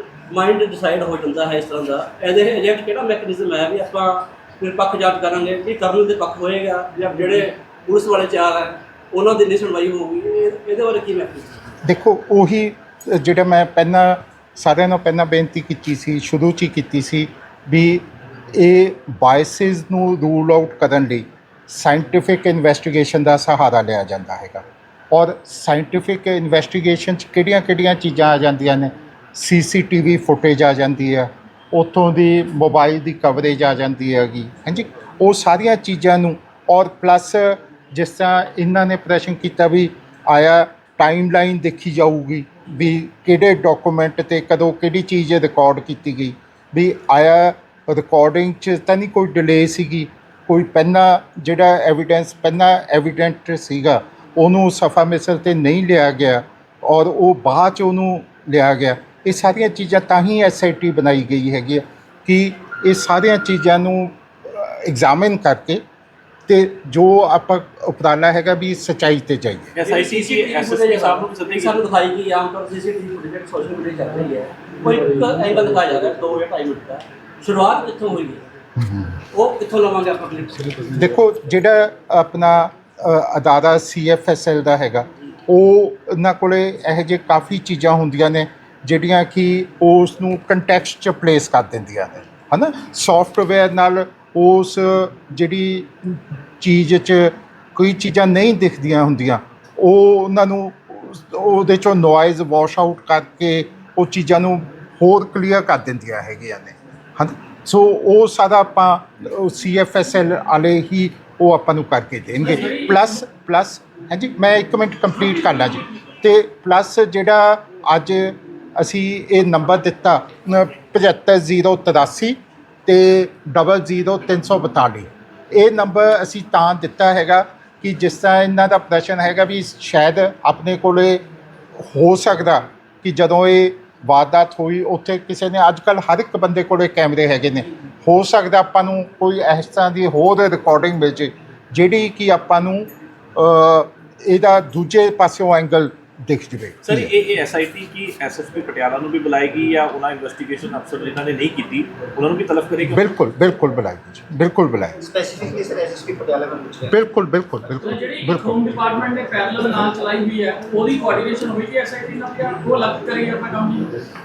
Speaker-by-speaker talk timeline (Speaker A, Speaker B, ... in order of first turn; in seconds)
Speaker A: 0.2-11.7, 69.8-78.4, 79.3-80.9
Speaker B: 11.8-65.8, 66.5-69.7, 78.8-79.2, 80.9-131.2, 131.8-147.1, 152.9-154.9, 156.9-158.7
Speaker C: 69.7-71.7, 146.8-153.1
Speaker D: 112.4-113.1, 157.8-164.0
Speaker E: 155.0-157.0